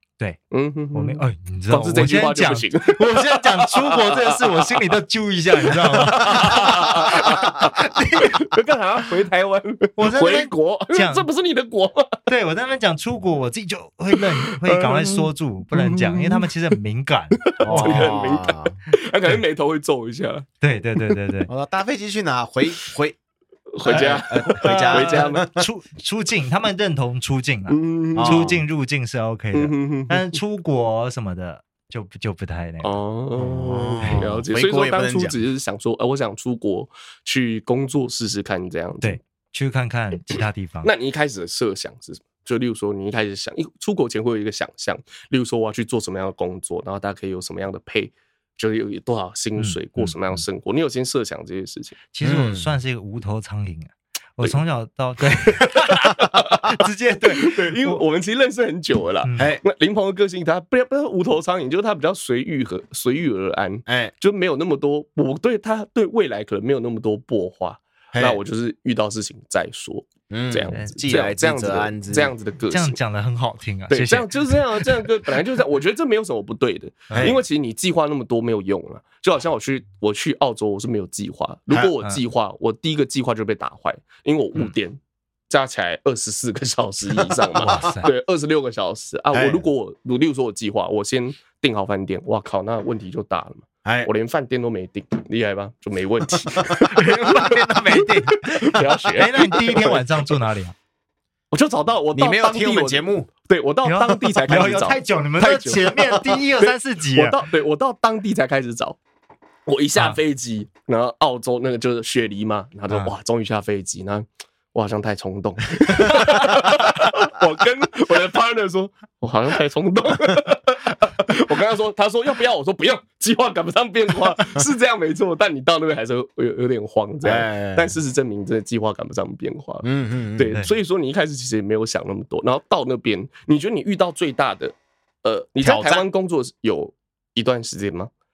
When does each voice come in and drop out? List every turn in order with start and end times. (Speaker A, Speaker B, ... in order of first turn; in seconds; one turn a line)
Speaker A: 0.5-4.8
Speaker B: 0.9-8.3
Speaker A: 5.7-12.2
Speaker C: 6.2-6.7
Speaker C: 7.2-7.7
Speaker B: 10.0-11.3
Speaker B: 12.3-18.1
Speaker A: 14.4-16.5
Speaker A: 17.4-20.4
Speaker C: 17.6-18.8
Speaker B: 20.6-21.5
Speaker C: 21.5-23.1
Speaker A: 23.8-25.5
Speaker C: 23.8-25.7
Speaker B: 24.6-33.0
Speaker A: 27.7-28.5
Speaker C: 28.1-28.6
Speaker A: 29.5-30.4
Speaker A: 32.8-39.2
Speaker C: 33.4-35.4
Speaker B: 34.0-34.4
Speaker B: 39.0-40.9
Speaker A: 40.8-52.0
Speaker B: 49.5-50.4
Speaker B: 52.1-58.0
Speaker C: 52.2-52.7
Speaker A: 55.4-73.0
Speaker B: 59.2-59.5
Speaker C: 59.4-59.6
Speaker C: 63.9-64.1
Speaker C: 68.1-68.4
Speaker C: 70.3-72.3
Speaker B: 70.7-71.0
Speaker B: 72.7-75.0
Speaker A: 73.9-100.2
Speaker B: 77.1-77.3
Speaker C: 77.1-77.4
Speaker B: 87.5-88.1
Speaker C: 89.3-89.7
Speaker C: 93.8-94.1
Speaker B: 96.9-100.7
Speaker A: 101.5-109.0
Speaker C: 102.1-103.3
Speaker B: 103.8-107.4
Speaker C: 104.3-104.7
Speaker A: 109.7-138.1
Speaker C: 127.2-128.0
Speaker C: 129.8-130.6
Speaker C: 135.6-136.1